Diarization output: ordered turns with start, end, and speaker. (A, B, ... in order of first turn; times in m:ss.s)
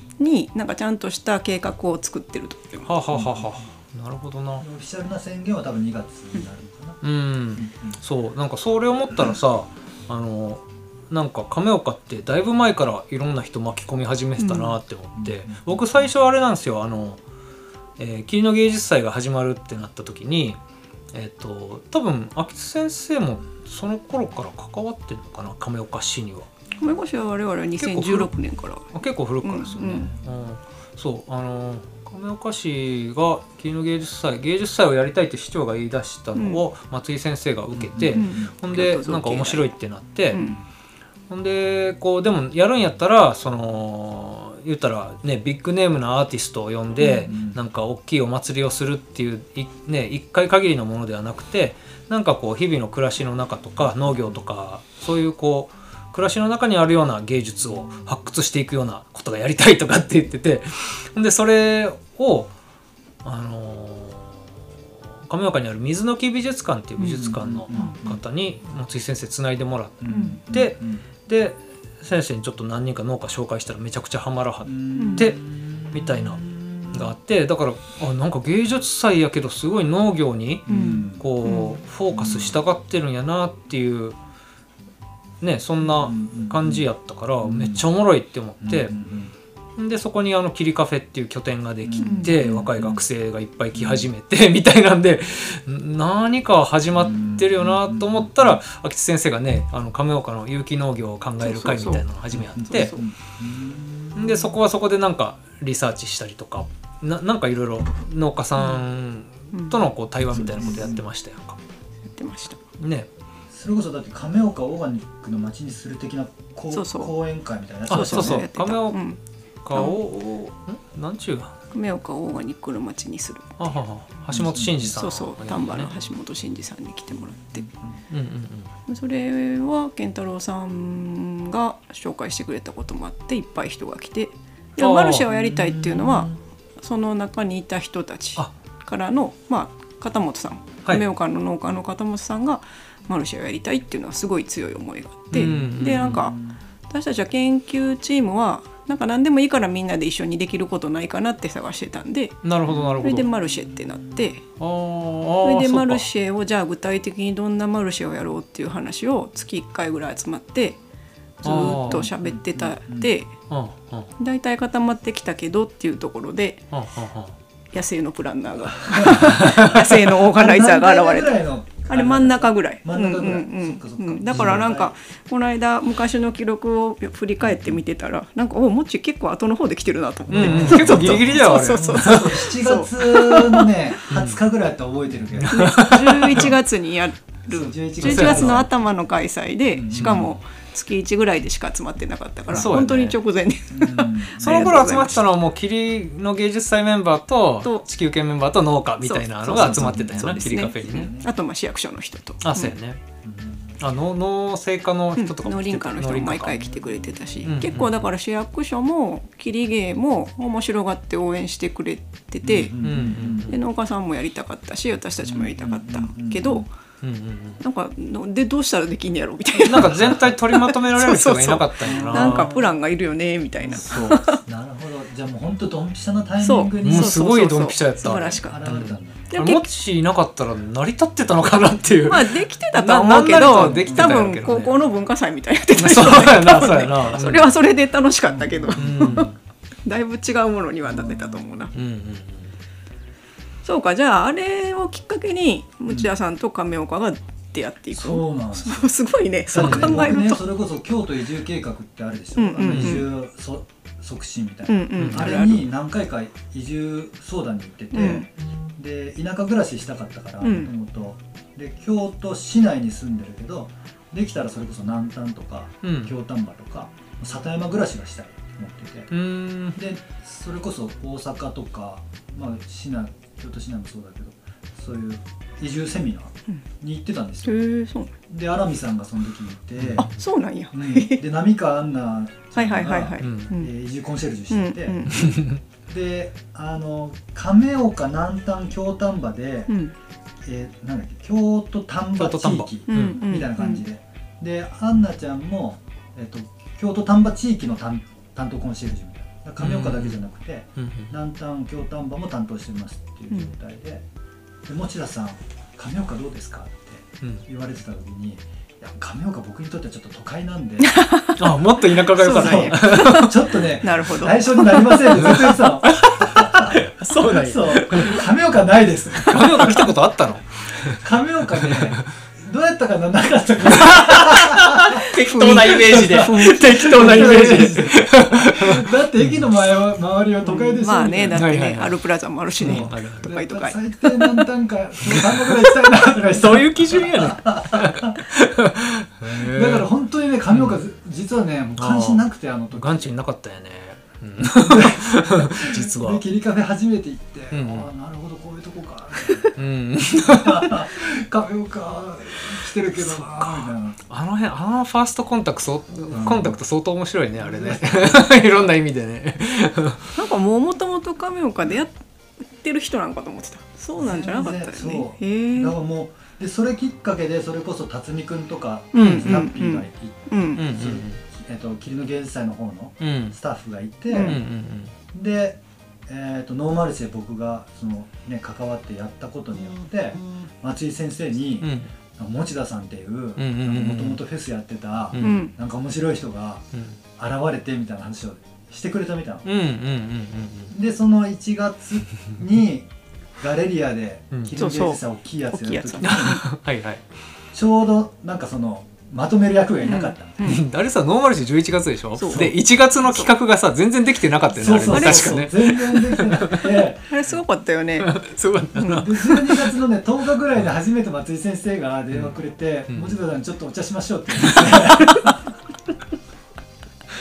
0:00.2-0:02.9 A
0:02.8-0:04.6 B
0:03.1-0:03.5 C
0:04.6-0:07.0 C
0:07.0-0:17.2 B
0:07.5-0:08.0 C
0:14.4-0:14.8 A
0:15.1-0:15.8 C
0:18.0-0:20.6 B
0:21.1-0:26.5 B
0:26.8-0:28.9 A
0:27.8-0:28.3 B
0:28.9-0:40.4 B
0:29.4-0:30.1 A
0:29.8-0:30.1 C
0:36.4-0:36.6 A
0:37.7-0:38.5 C
0:38.1-0:39.7 A
0:40.3-0:40.6 A
0:41.3-1:02.5 B
0:47.0-0:47.3 A
0:47.3-0:47.6 C
1:03.2-1:15.4 B
1:07.0-1:08.2 C
1:10.0-1:11.0 C
1:10.1-1:10.4 A
1:14.6-1:17.1 C
1:15.0-1:15.3 A
1:15.9-1:24.2 B
1:20.7-1:21.3 C
1:20.7-1:21.8 A
1:22.1-1:22.6 C
1:25.4-1:29.0 B
1:25.8-1:26.9 C
1:27.4-1:27.9 C
1:28.6-1:29.3 C
1:29.8-1:42.9 B
1:31.8-1:33.1 C
1:32.0-1:32.3 A
1:33.7-1:34.1 C
1:37.0-1:38.6 C
1:41.4-1:42.0 A
1:42.3-1:44.5 C
1:42.7-1:43.0 A
1:44.2-1:51.6 B
1:49.5-1:49.9 A
1:50.3-1:51.0 C
1:52.1-1:52.6 A
1:52.8-1:53.1 B
1:53.5-1:58.4 C
1:56.7-1:57.1 A
1:57.9-1:59.0 B
1:57.9-1:59.2 A
1:59.6-2:01.6 B
2:01.7-2:03.7 A
2:03.6-2:05.9 B
2:04.3-2:05.0 C
2:04.9-2:07.7 A
2:08.1-2:08.7 B
2:08.9-2:26.4 A
2:14.8-2:15.3 B
2:15.3-2:16.2 C
2:25.3-2:26.3 B
2:26.3-2:26.5 C
2:26.9-2:34.4 A
2:32.4-2:33.3 B
2:32.7-2:34.3 C
2:34.6-2:36.0 B
2:35.4-2:40.8 A
2:41.4-2:43.1 C
2:41.4-2:43.3 A
2:41.4-2:42.1 B
2:43.5-2:44.1 B
2:44.2-2:46.6 A
2:46.7-2:47.3 B
2:47.7-3:03.8 A
2:48.9-2:54.9 C
2:49.2-2:50.0 B
2:54.3-2:54.7 B
3:00.3-3:05.8 C
3:00.3-3:02.5 B
3:04.1-3:04.4 B
3:05.3-3:06.5 B
3:05.5-3:15.3 A
3:07.5-3:08.7 C
3:08.0-3:08.7 B
3:09.7-3:10.3 C
3:09.9-3:10.3 B
3:12.5-3:13.2 B
3:13.7-3:14.9 C
3:14.4-3:21.1 B
3:19.0-3:22.8 A
3:19.5-3:21.3 C
3:22.4-3:23.0 B
3:23.2-3:23.8 C
3:23.8-3:26.7 B
3:25.2-3:36.7 A
3:26.6-3:27.5 C
3:27.4-3:28.1 B
3:32.4-3:33.5 C
3:32.8-3:33.6 B
3:35.2-3:36.7 C
3:37.0-3:37.6 B
3:37.6-3:44.4 A
3:39.6-3:42.5 B
3:41.8-3:42.7 C
3:43.7-3:44.2 B
3:44.4-3:47.3 C
3:46.4-3:48.6 A
3:46.8-3:54.8 B
3:48.4-3:49.3 C
3:49.3-3:49.6 A
3:52.0-3:59.3 A
3:53.6-3:54.2 C
3:55.7-3:57.5 B
3:58.4-3:59.3 C
3:58.7-3:59.4 B
3:59.8-4:01.7 A
4:00.9-4:01.4 C
4:01.7-4:02.6 B
4:03.6-4:10.4 A
4:07.9-4:08.9 C
4:09.5-4:29.2 C
4:09.5-4:10.2 B
4:12.4-4:13.1 A
4:12.6-4:13.1 B
4:14.7-4:15.6 A
4:15.0-4:15.5 B
4:17.9-4:18.3 A
4:20.4-4:20.7 A
4:25.8-4:26.1 B
4:29.1-4:29.8 B
4:29.7-4:37.6 C
4:37.4-4:38.1 A
4:38.3-4:40.1 C
4:39.8-4:40.1 B
4:40.0-4:41.2 A
4:40.7-4:45.1 C
4:42.6-4:43.7 A
4:43.2-4:43.5 B
4:44.5-4:45.3 A
4:45.1-4:45.6 B
4:45.9-4:49.7 C
4:49.7-4:49.9 A
4:50.4-5:04.0 C
4:52.2-4:53.2 B
4:52.9-4:53.8 A
4:59.6-5:00.2 B
5:00.8-5:01.1 B
5:04.6-5:11.0 C
5:10.8-5:15.4 A
5:11.4-5:13.3 B
5:12.2-5:20.0 C
5:15.1-5:18.3 B
5:19.2-5:21.0 B
5:20.7-5:31.5 C
5:21.6-5:22.0 B
5:23.6-5:29.5 B
5:25.1-5:27.7 A
5:30.5-5:33.8 A
5:31.3-5:32.0 B
5:32.6-5:33.3 B
5:32.6-5:38.2 C
5:35.0-5:39.9 B
5:39.2-5:43.1 C
5:40.5-5:40.8 B
5:41.8-5:46.2 B
5:44.6-5:49.5 C
5:47.5-5:47.9 B
5:49.6-5:50.9 B
5:50.1-5:54.0 C
5:52.9-6:00.1 B
5:56.1-5:56.6 C
5:57.4-5:58.5 C
6:00.1-6:01.9 A
6:02.5-6:05.7 A
6:04.0-6:14.4 C
6:08.9-6:10.6 A
6:09.0-6:09.4 B
6:10.6-6:11.2 B
6:13.0-6:13.4 B
6:14.1-6:14.4 A
6:14.2-6:14.9 B
6:15.1-6:29.5 C
6:21.6-6:21.9 B
6:23.4-6:24.2 B
6:25.1-6:25.4 B
6:25.2-6:25.5 A
6:29.4-6:30.7 B
6:30.7-6:36.4 C
6:34.5-6:36.4 A
6:36.0-6:37.0 B
6:37.5-6:40.5 C
6:39.8-6:40.6 A
6:40.4-6:46.7 B
6:42.2-6:42.5 A
6:42.3-6:42.6 C
6:43.0-6:43.3 A
6:44.5-6:47.4 C
6:44.9-6:45.5 A
6:47.1-6:48.2 A
6:48.0-6:49.7 B
6:48.7-6:49.1 A
6:48.8-6:55.5 C
6:52.9-6:53.2 B
6:54.5-6:55.3 B